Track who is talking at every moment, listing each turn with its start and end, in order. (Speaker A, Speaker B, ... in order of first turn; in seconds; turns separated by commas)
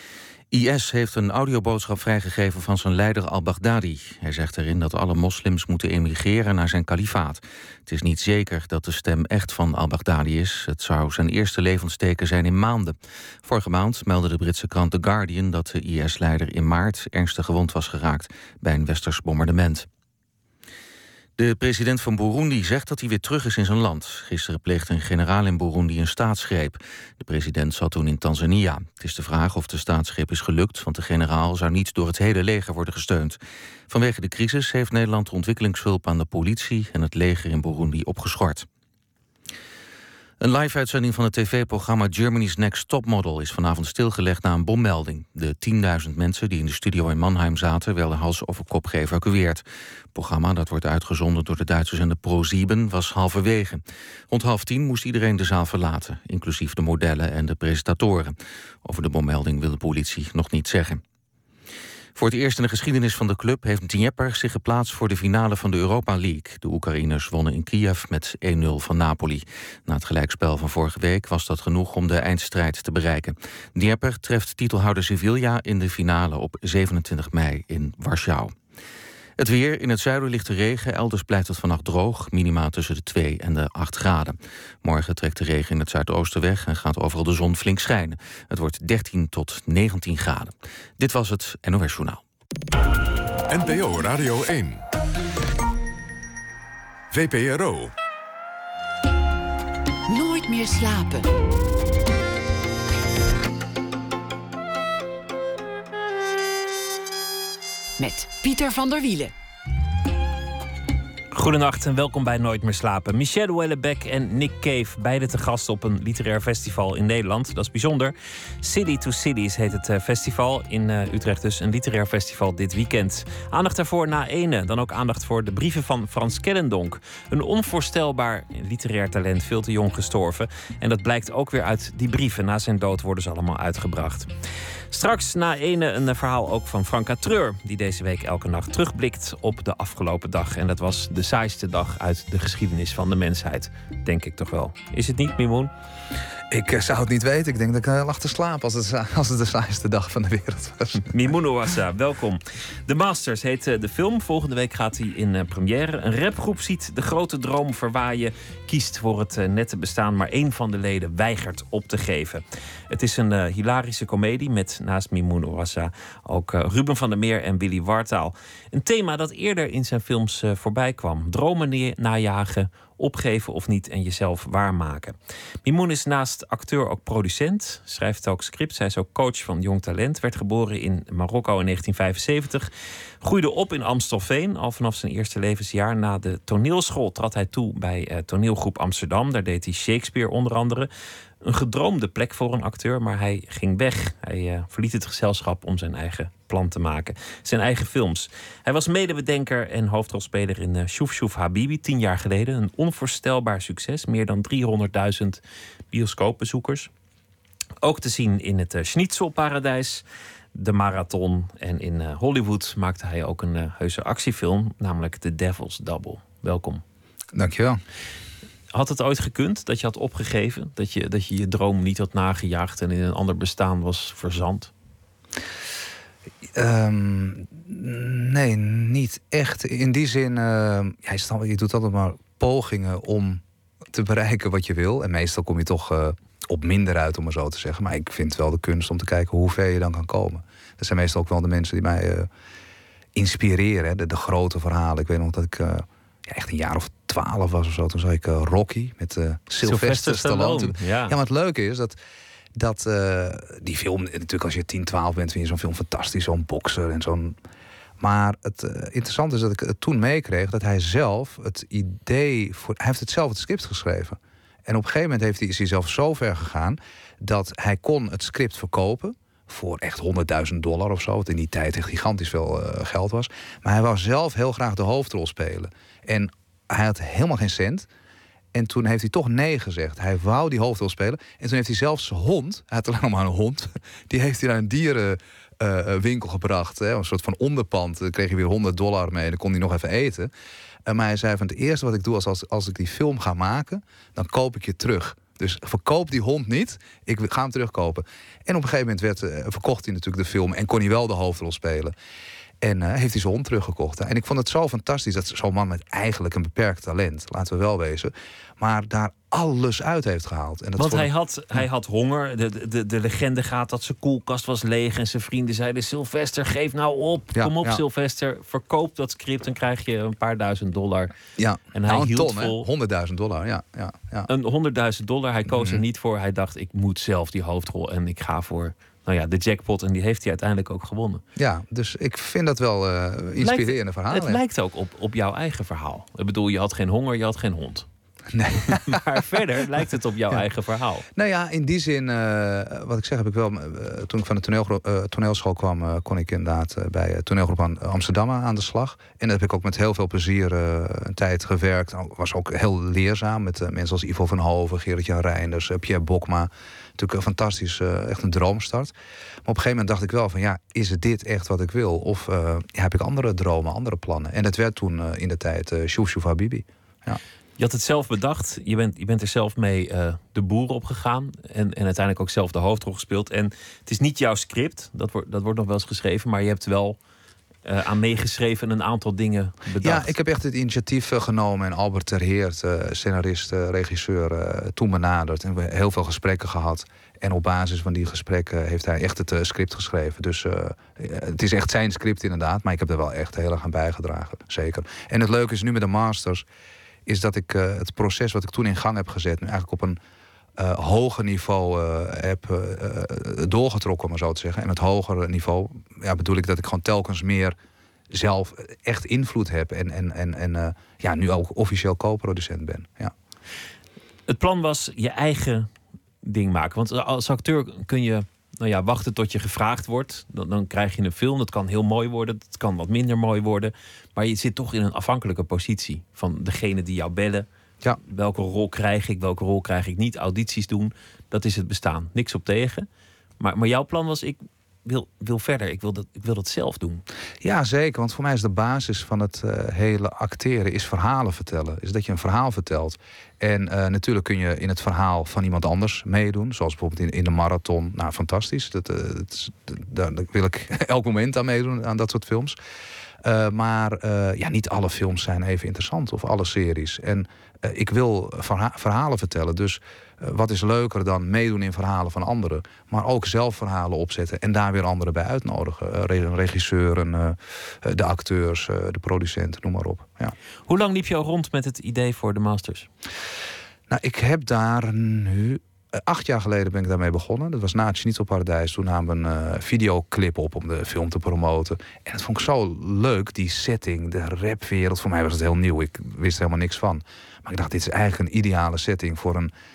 Speaker A: 0.5-19.9, Speaker A: 21.4-38.7, Speaker A: 40.4-61.0, Speaker A: 62.1-78.5, Speaker A: 79.4-92.2, Speaker B: 93.5-94.8, Speaker B: 97.1-97.9, Speaker C: 100.1-101.3, Speaker C: 108.0-109.3, Speaker D: 111.3-134.3, Speaker D: 134.9-145.7, Speaker E: 146.5-151.1, Speaker D: 151.1-182.7, Speaker D: 183.2-190.9, Speaker D: 191.4-205.4, Speaker D: 205.9-206.9, Speaker D: 207.8-210.0, Speaker D: 210.5-216.8, Speaker E: 217.3-217.8, Speaker D: 218.7-224.7, Speaker E: 226.5-242.3, Speaker E: 243.1-252.0, Speaker D: 249.6-251.2, Speaker E: 252.6-257.4, Speaker E: 258.0-277.9, Speaker E: 278.5-290.3, Speaker E: 290.9-301.9, Speaker E: 302.6-311.6, Speaker D: 310.8-321.1, Speaker E: 317.3-317.8, Speaker E: 321.4-324.3, Speaker D: 321.7-322.6, Speaker D: 324.3-331.2, Speaker E: 325.5-325.8, Speaker E: 331.4-334.4, Speaker D: 333.4-337.9, Speaker E: 338.3-339.0, Speaker D: 338.6-341.1, Speaker E: 341.1-358.9, Speaker E: 359.4-367.2, Speaker D: 367.6-377.0, Speaker D: 377.6-380.1, Speaker E: 379.8-396.4, Speaker E: 397.1-400.0, Speaker E: 400.6-407.6, Speaker E: 408.1-413.1, Speaker D: 414.3-415.7, Speaker D: 416.2-427.4, Speaker D: 428.0-432.9, Speaker D: 433.4-437.0, Speaker E: 437.4-452.6, Speaker E: 453.2-470.3, Speaker D: 470.7-472.9, Speaker E: 473.9-489.5